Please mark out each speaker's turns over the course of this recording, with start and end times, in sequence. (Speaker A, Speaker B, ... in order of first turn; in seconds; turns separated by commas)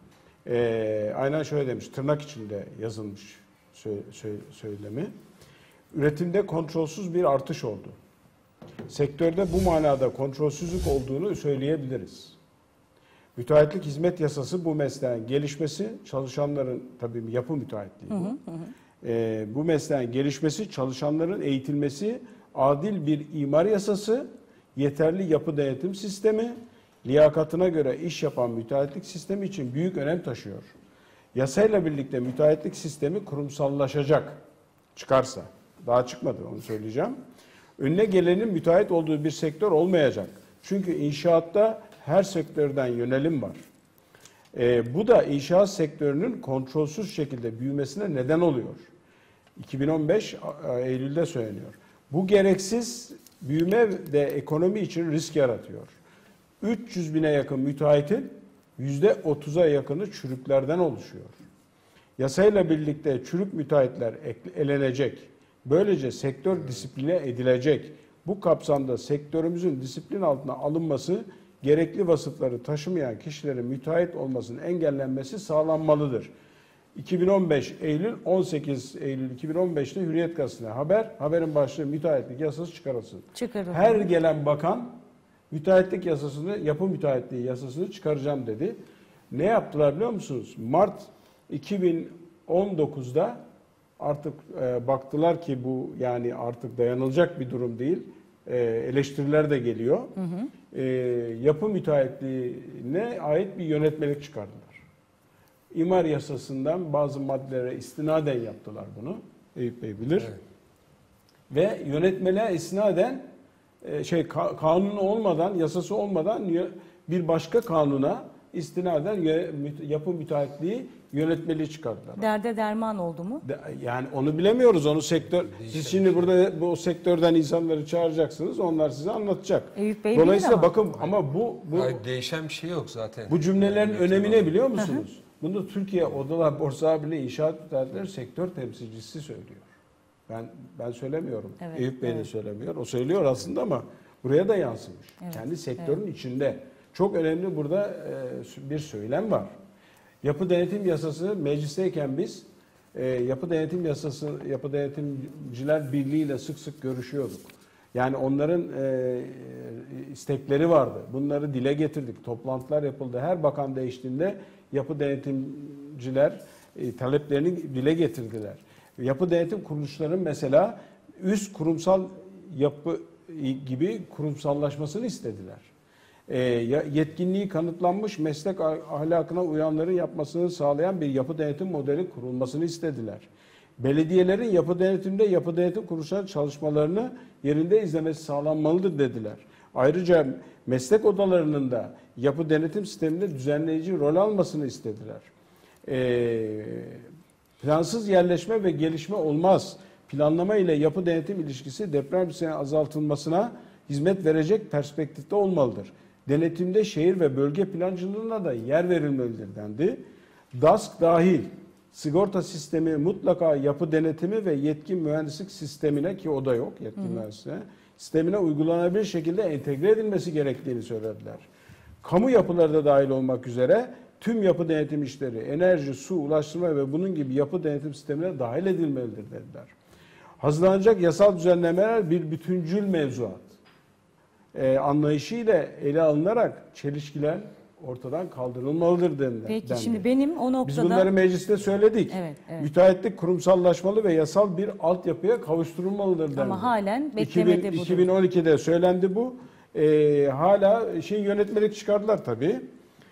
Speaker A: 0.5-5.1, Speaker A: 5.9-8.0, Speaker A: 8.9-12.4, Speaker A: 13.4-18.4, Speaker B: 18.1-18.7, Speaker A: 19.0-30.7, Speaker A: 31.3-34.4, Speaker A: 35.0-37.2, Speaker A: 37.8-43.6, Speaker A: 44.5-48.9, Speaker A: 49.6-56.0, Speaker A: 56.6-61.4, Speaker A: 62.2-76.3, Speaker A: 77.0-85.0, Speaker B: 83.3-84.0, Speaker A: 85.5-88.8, Speaker A: 89.3-93.4, Speaker A: 94.0-100.2, Speaker B: 100.2-100.5, Speaker A: 100.7-104.8, Speaker A: 105.7-110.3, Speaker A: 111.5-113.3, Speaker A: 113.8-122.3, Speaker B: 122.2-123.5, Speaker A: 123.5-132.0, Speaker C: 125.4-126.3, Speaker B: 129.8-130.7, Speaker C: 131.7-134.6, Speaker A: 133.3-139.7, Speaker B: 134.8-135.0, Speaker A: 140.3-149.5, Speaker B: 141.6-142.3, Speaker A: 150.2-175.7, Speaker A: 176.3-195.3, Speaker A: 195.9-197.1, Speaker A: 197.6-221.5, Speaker A: 222.0-229.7, Speaker A: 230.4-233.6, Speaker A: 234.5-240.1, Speaker B: 239.5-241.1, Speaker A: 240.6-252.7, Speaker B: 242.1-242.7, Speaker B: 246.3-248.1